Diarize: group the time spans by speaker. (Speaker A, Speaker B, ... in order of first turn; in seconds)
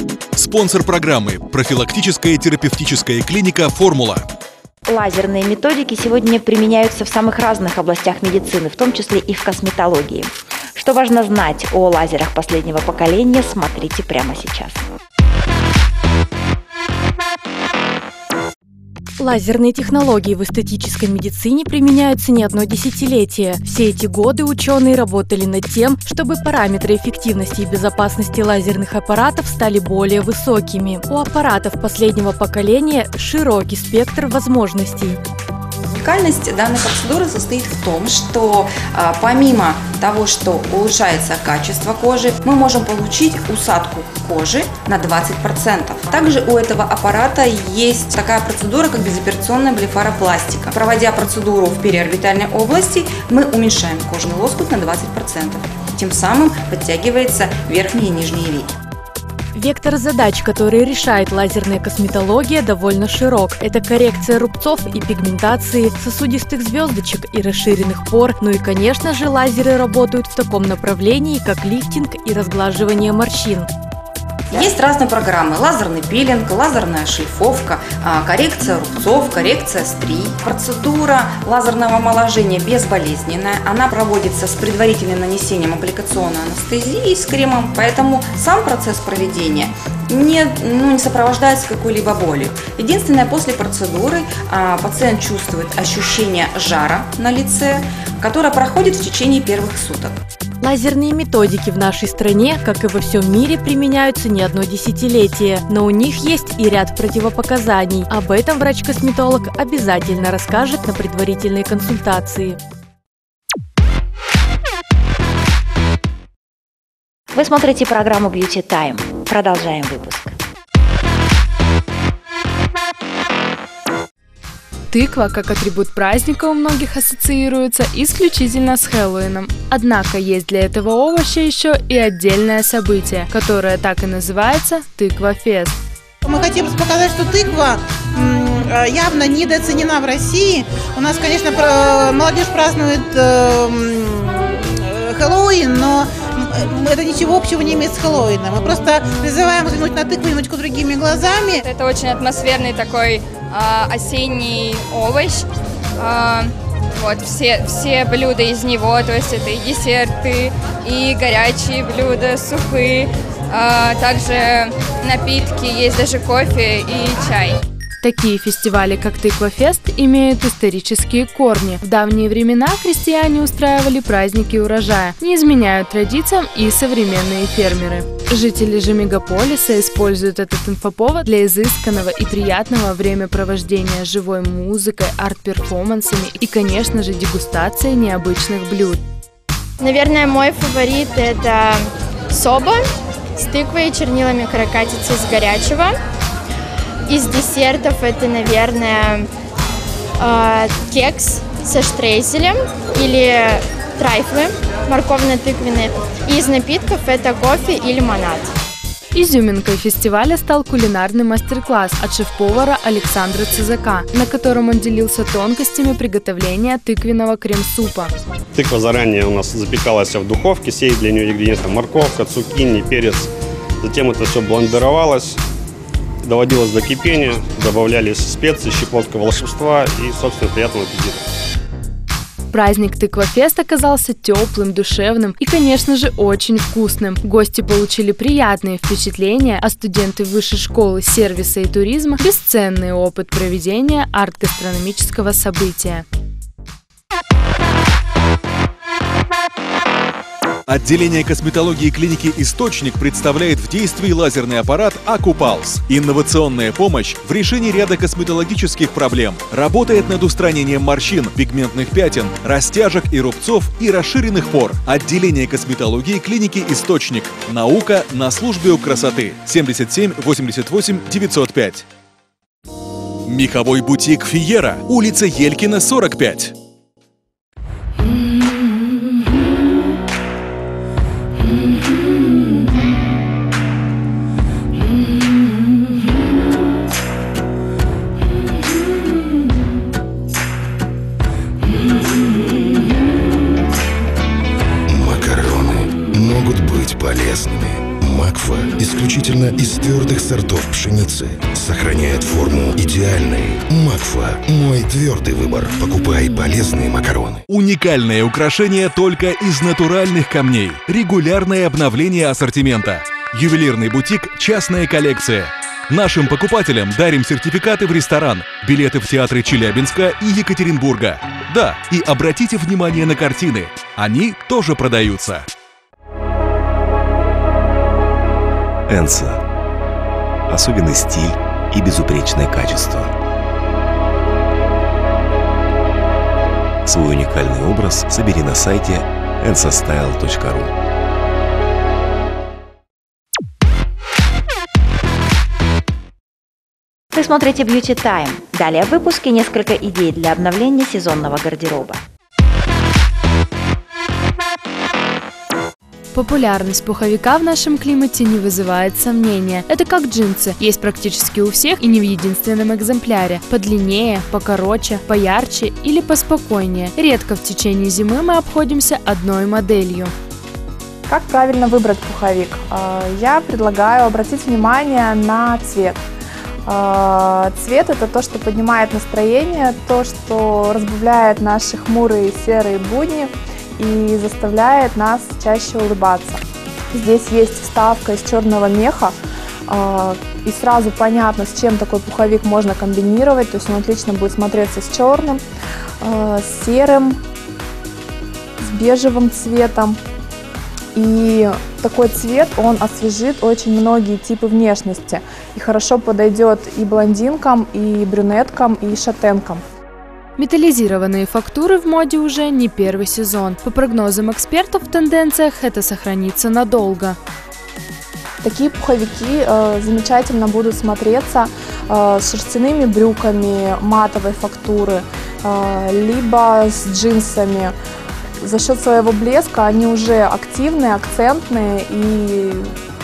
Speaker A: 0.3-4.3, 250.7-271.9, 273.3-276.5, 307.5-325.5
Speaker B: 4.9-14.9, 117.3-120.4, 347.1-352.0
Speaker C: 19.2-35.2, 59.5-73.7, 100.6-112.6
Speaker D: 36.0-58.7, 74.5-100.2
Speaker E: 124.9-135.8, 168.0-189.0, 209.2-218.1, 232.5-246.1, 356.1-370.1, 410.4-417.2
Speaker F: 136.3-144.4, 145.0-151.6
Speaker G: 151.6-155.4, 156.0-167.6
Speaker H: 189.8-192.8, 193.4-195.9, 197.1-199.3, 200.2-208.5
Speaker I: 218.6-223.3, 223.8-225.4, 226.2-231.2
Speaker J: 294.9-307.4
Speaker K: 328.9-329.4, 330.5-333.1, 336.9-340.7
Speaker L: 371.1-376.0, 376.7-389.1, 389.7-395.4, 396.0-397.2, 398.6-400.0, 400.9-409.6, 418.4-427.7, 428.4-432.7